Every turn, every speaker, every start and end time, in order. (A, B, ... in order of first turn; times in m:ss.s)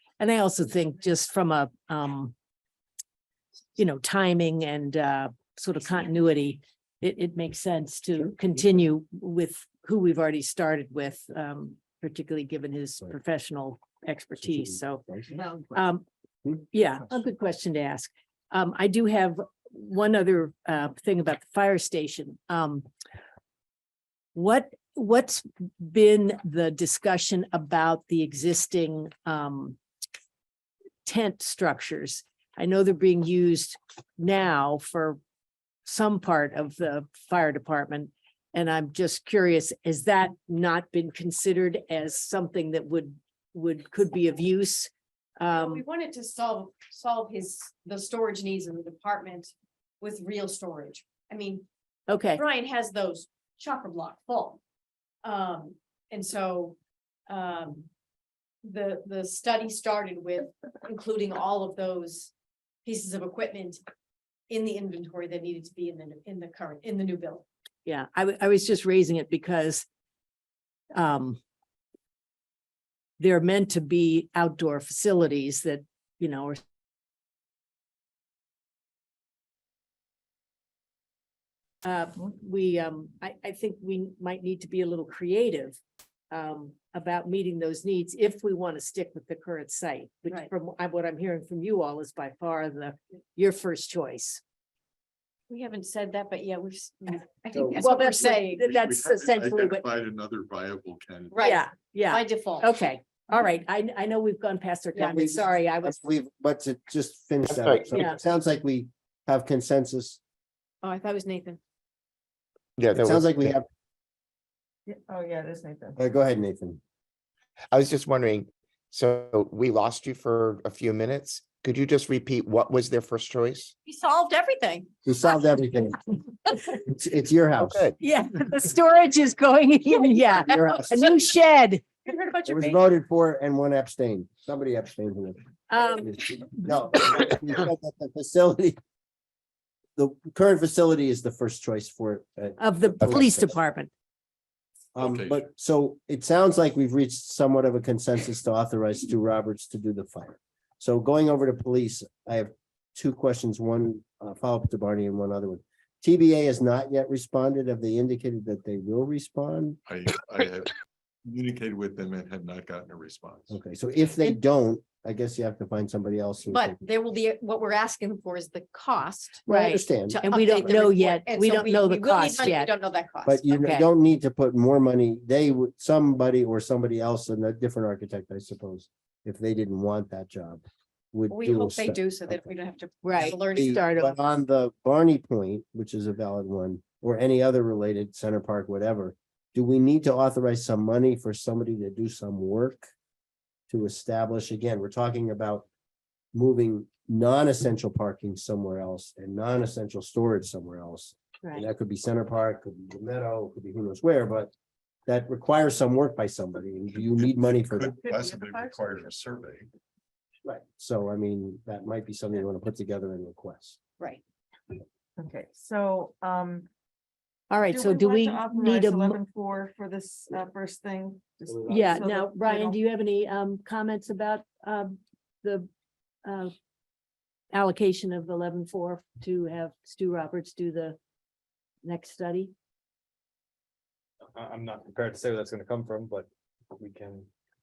0:00.2-0:02.3 A
0:03.8-0:15.1 A
0:14.4-0:15.5 B
0:15.7-0:16.0 A
0:16.7-0:22.9 A
0:24.4-0:29.8 A
0:31.0-0:35.2 A
0:35.8-0:45.8 A
0:45.5-0:51.6 C
0:52.1-0:52.4 A
0:52.3-0:54.6 C
0:55.2-0:56.8 C
0:57.3-0:57.9 C
0:58.6-1:02.3 C
1:02.8-1:03.8 C
1:04.5-1:07.4 C
1:07.9-1:09.9 A
1:11.0-1:11.4 A
1:13.2-1:16.6 A
1:21.8-1:25.8 A
1:26.3-1:34.4 A
1:35.5-1:38.6 C
1:37.5-1:37.8 B
1:37.6-1:39.8 A
1:38.6-1:41.4 D
1:41.3-1:42.7 C
1:41.4-1:46.0 A
1:45.0-1:50.2 B
1:47.5-1:48.0 E
1:47.9-1:48.2 A
1:50.8-1:51.6 C
1:52.8-1:53.6 E
1:53.0-1:53.6 B
1:54.9-1:56.0 F
1:56.0-1:56.8 B
1:57.7-2:03.7 E
2:03.8-2:04.9 C
2:05.0-2:06.0 B
2:06.7-2:07.9 B
2:07.6-2:07.9 E
2:08.0-2:11.8 A
2:10.4-2:11.1 B
2:12.0-2:12.9 C
2:12.5-2:18.8 B
2:15.7-2:16.1 A
2:20.0-2:23.6 B
2:22.6-2:23.9 A
2:25.0-2:39.8 B
2:25.0-2:25.5 D
2:39.9-2:40.7 D
2:41.3-2:43.6 D
2:43.5-2:46.8 B
2:46.5-2:49.5 C
2:49.5-2:50.2 B
2:49.5-2:52.7 A
2:50.1-2:53.5 C
2:53.3-3:02.6 B
2:53.6-2:53.9 A
3:01.3-3:03.9 C
3:03.0-3:04.1 A
3:03.2-3:12.9 B
3:13.7-3:15.7 B
3:16.3-3:24.5 B
3:25.1-3:28.0 B
3:26.9-3:29.7 D
3:28.0-3:29.1 F
3:30.4-3:33.8 B
3:35.2-3:36.7 F
3:37.5-3:39.2 A
3:37.7-3:42.8 F
3:41.5-3:41.9 G
3:41.7-3:45.7 A
3:46.2-3:46.5 A
3:47.5-3:51.0 A
3:51.8-3:52.5 A
3:54.4-3:57.3 G